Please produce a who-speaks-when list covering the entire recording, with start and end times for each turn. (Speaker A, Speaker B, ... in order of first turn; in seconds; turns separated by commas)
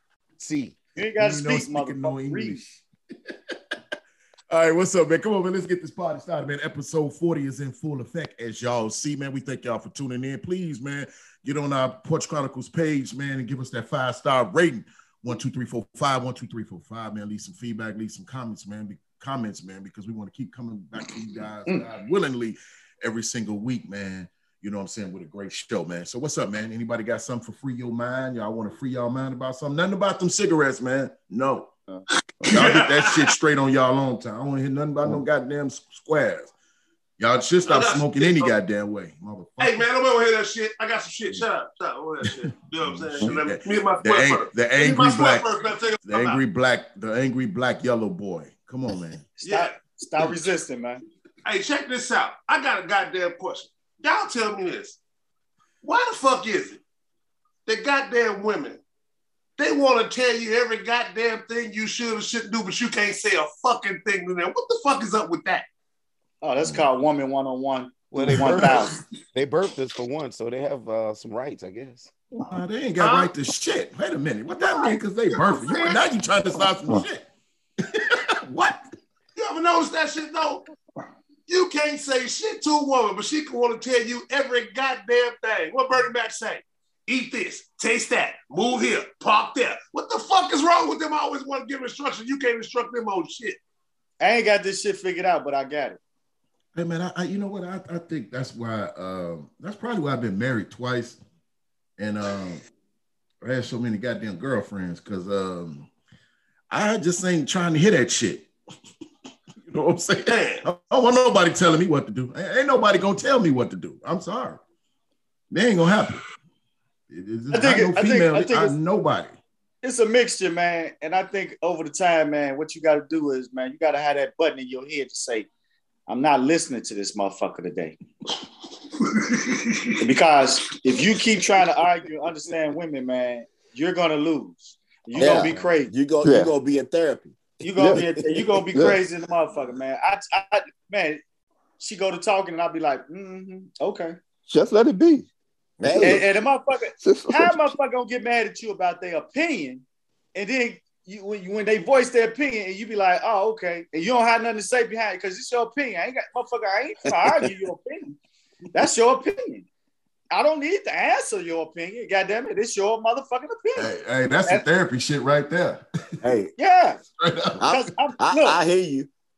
Speaker A: 0.4-0.8, Speaker B: 1.0-2.6, Speaker C: 1.2-2.8, Speaker C: 4.5-31.7, Speaker C: 32.5-36.5, Speaker D: 32.5-33.3, Speaker C: 37.2-39.9, Speaker D: 37.6-38.5, Speaker D: 39.6-46.4, Speaker C: 42.3-45.5, Speaker C: 46.0-49.3, Speaker B: 49.4-51.0, Speaker D: 49.4-49.8, Speaker D: 51.5-55.0, Speaker D: 55.8-56.8, Speaker D: 57.7-58.8, Speaker D: 59.6-65.7, Speaker B: 66.4-69.0, Speaker A: 68.1-68.5, Speaker A: 69.3-72.1, Speaker C: 72.5-77.3, Speaker D: 73.0-73.3, Speaker D: 74.6-76.0, Speaker C: 77.9-78.8, Speaker D: 79.4-80.6, Speaker D: 81.5-93.6, Speaker B: 94.2-96.0, Speaker C: 96.8-101.2, Speaker C: 102.0-102.6, Speaker C: 103.4-105.9, Speaker C: 106.7-108.5, Speaker C: 109.7-114.6, Speaker D: 110.3-110.6, Speaker C: 115.5-116.2, Speaker C: 117.1-119.3, Speaker B: 117.5-118.8, Speaker B: 119.8-125.5, Speaker B: 126.1-128.0, Speaker D: 129.1-129.9, Speaker B: 130.0-135.9, Speaker E: 135.2-137.4, Speaker A: 135.2-135.7, Speaker F: 136.2-136.5, Speaker B: 137.6-141.2, Speaker F: 137.8-138.1, Speaker F: 138.7-139.0, Speaker B: 141.8-144.2, Speaker F: 144.5-145.3, Speaker E: 145.8-146.2, Speaker F: 145.9-146.2, Speaker B: 146.0-149.8, Speaker F: 147.0-147.7, Speaker B: 150.3-158.1, Speaker B: 158.7-159.7, Speaker B: 160.3-163.9, Speaker C: 163.8-165.8, Speaker E: 166.2-166.5, Speaker B: 166.6-167.0, Speaker C: 167.2-167.8, Speaker E: 167.6-169.1, Speaker B: 167.7-168.6